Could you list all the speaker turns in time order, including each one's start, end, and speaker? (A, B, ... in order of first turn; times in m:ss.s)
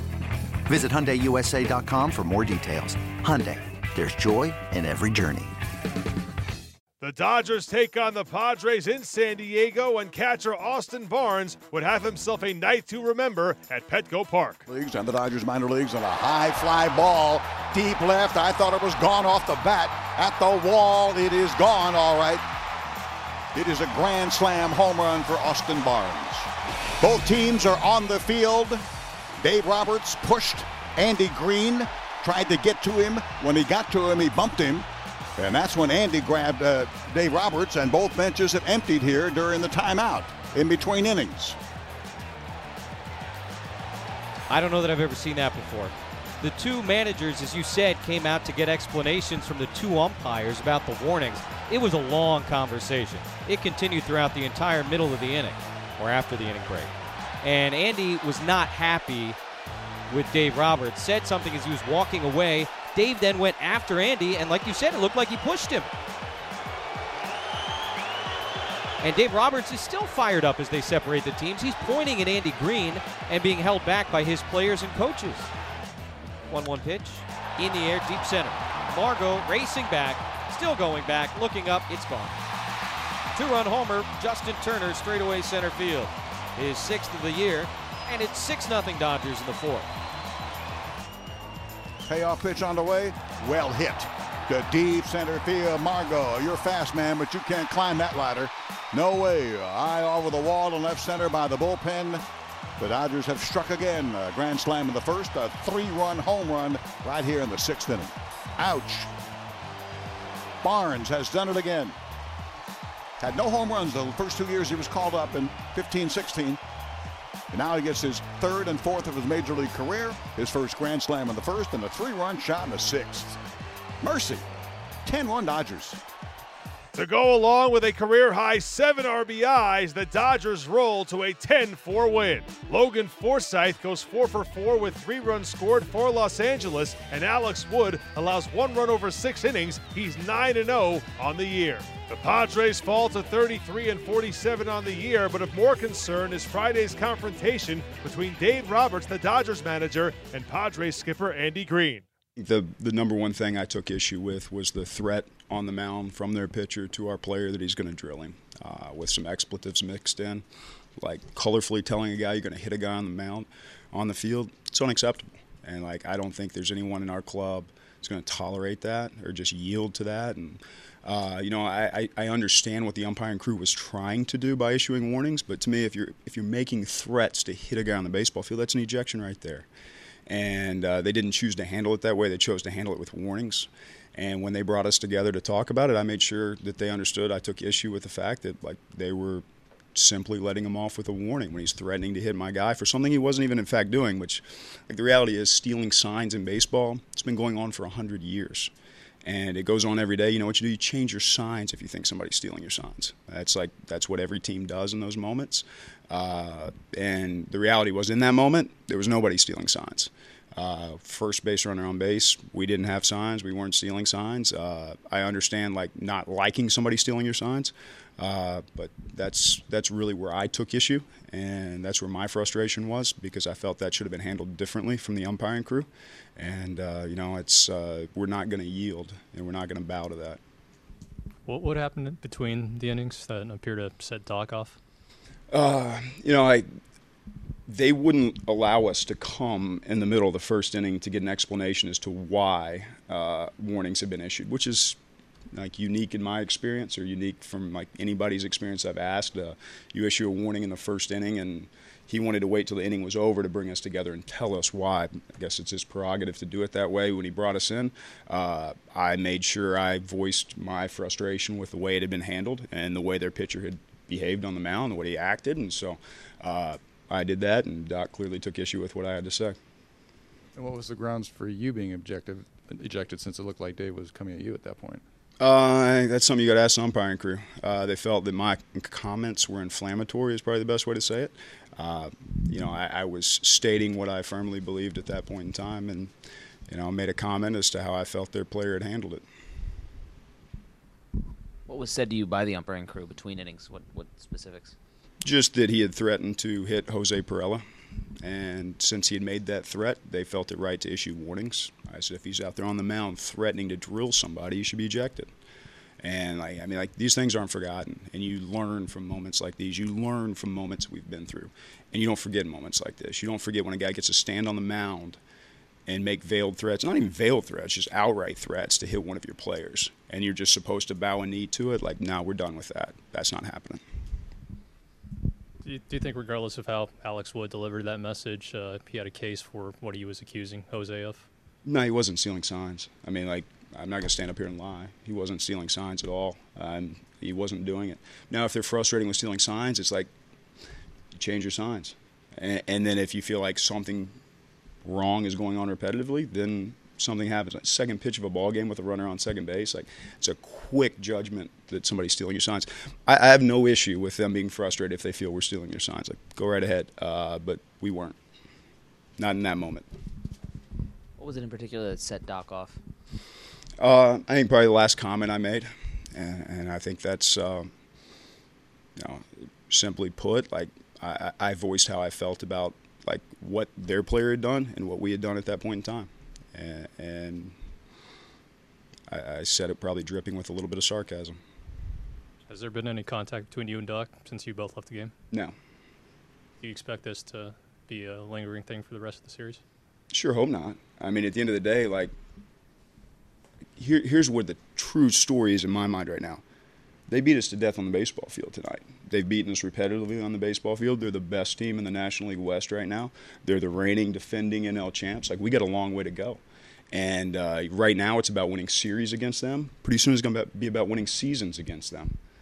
0:00.7-0:05.6 A
0:07.0-0:14.6 B
0:14.7-0:22.4 C
0:23.5-0:26.5 C
0:27.0-0:28.8 C
0:29.4-0:41.6 C
0:44.5-0:56.9 D
0:57.4-0:59.4 D
1:00.1-1:05.9 D
1:09.0-1:15.5 D
1:16.5-1:22.4 D
1:23.4-1:29.9 D
1:32.0-1:42.2 C
1:42.8-1:49.1 C
1:50.6-1:52.0 C
1:53.2-1:56.6 C
1:57.5-2:03.4 C
2:04.0-2:04.4 C
2:05.0-2:06.0 C
2:07.0-2:32.0 B
2:32.4-2:40.4 E
2:41.0-2:59.7 E
3:00.3-3:18.7 E
3:19.2-3:50.4 E
3:51.5-3:54.8 F
3:55.5-3:56.6 E
3:57.7-4:05.0 E
4:05.5-4:29.6 E
4:30.6-4:35.0 G
4:35.4-4:46.1 E
4:46.7-4:49.2 E
4:51.7-4:54.8 H
4:55.2-4:57.6 E
4:58.2-5:05.3 E
5:06.0-5:15.2 E
5:15.9-5:23.8 E
5:25.6-5:31.3 F
5:31.6-5:40.1 E
5:41.2-5:44.2 E
5:44.8-5:58.2 E
5:59.2-5:59.9 E
6:01.2-6:02.8 H
6:03.8-6:07.7 E
6:09.0-6:17.6 E
6:19.1-6:21.4 E
6:22.5-6:25.1 F
6:26.6-6:29.6 F
6:30.1-6:32.1 E
6:33.8-6:36.4 E
6:37.1-6:46.4 E
6:46.9-6:52.2 E